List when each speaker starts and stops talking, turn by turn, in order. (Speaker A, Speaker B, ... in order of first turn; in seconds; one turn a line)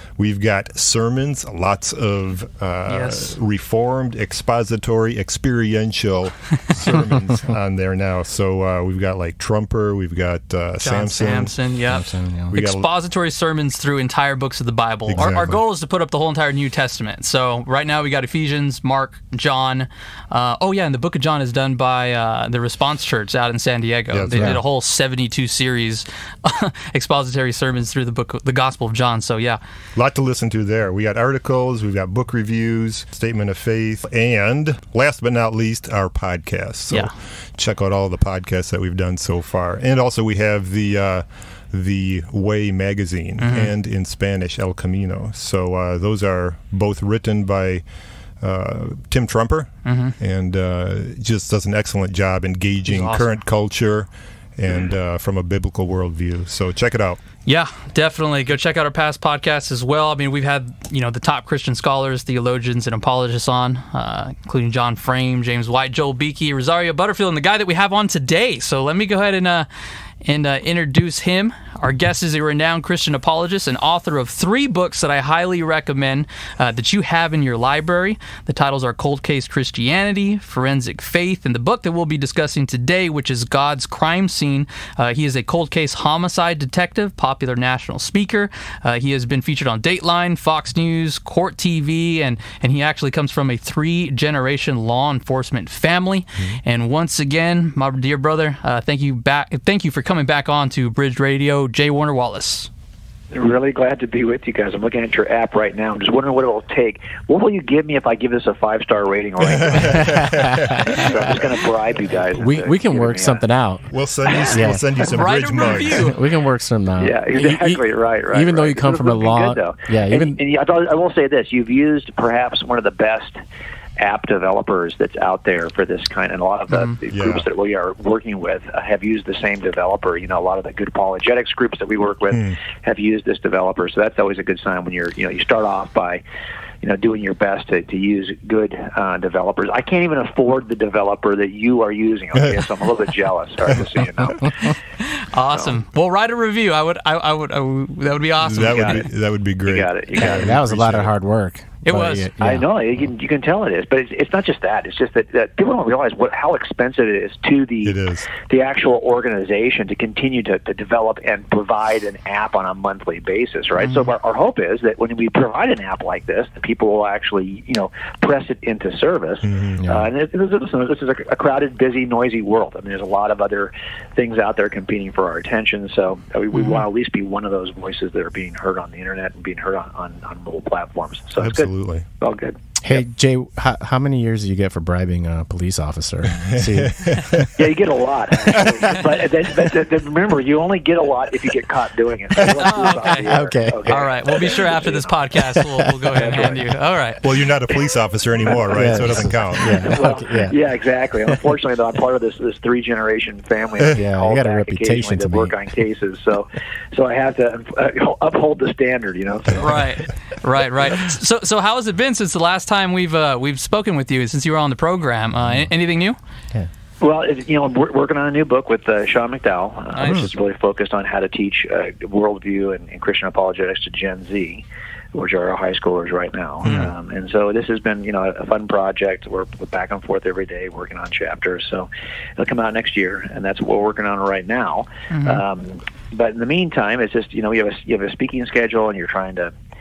Speaker A: 0.2-11.5
Speaker B: 2.9-3.4
Speaker B: 10.8-29.6
Speaker C: 11.9-12.5
Speaker A: 12.5-12.8
Speaker A: 15.1-15.6
Speaker A: 24.1-24.6
Speaker C: 24.3-24.6
Speaker A: 29.9-47.9
Speaker B: 43.4-43.7
Speaker A: 48.4-57.2
Speaker B: 49.8-50.1
Speaker B: 52.9-53.4
Speaker B: 57.4-69.7
Speaker B: 70.2-102.7
Speaker D: 103.3-113.4
Speaker A: 109.6-111.3
Speaker C: 109.8-111.5
Speaker C: 112.3-113.9
Speaker A: 113.9-116.1
Speaker C: 114.5-115.0
Speaker B: 114.6-116.2
Speaker C: 115.8-120.4
Speaker D: 117.0-123.4
Speaker D: 124.0-136.2
Speaker A: 127.1-127.5
Speaker D: 136.8-144.8
Speaker B: 145.0-149.1
Speaker D: 145.5-145.8
Speaker A: 148.4-151.1
Speaker D: 148.6-149.0
Speaker D: 149.6-150.6
Speaker C: 150.2-152.7
Speaker B: 151.8-152.3
Speaker D: 152.4-182.6
Speaker A: 157.8-158.3
Speaker A: 169.4-169.8
Speaker C: 169.8-170.1
Speaker A: 181.4-182.1
Speaker C: 182.8-187.5
Speaker A: 186.3-187.6
Speaker D: 187.6-195.1
Speaker C: 188.5-188.9
Speaker B: 192.5-193.3
Speaker C: 193.2-194.0
Speaker B: 193.9-197.2
Speaker C: 195.5-196.6
Speaker A: 197.2-200.0
Speaker D: 198.4-199.0
Speaker C: 198.5-200.6
Speaker D: 199.6-209.9
Speaker C: 203.9-205.7
Speaker B: 209.6-216.2
Speaker D: 217.0-239.5
Speaker B: 219.9-220.3
Speaker B: 235.1-235.4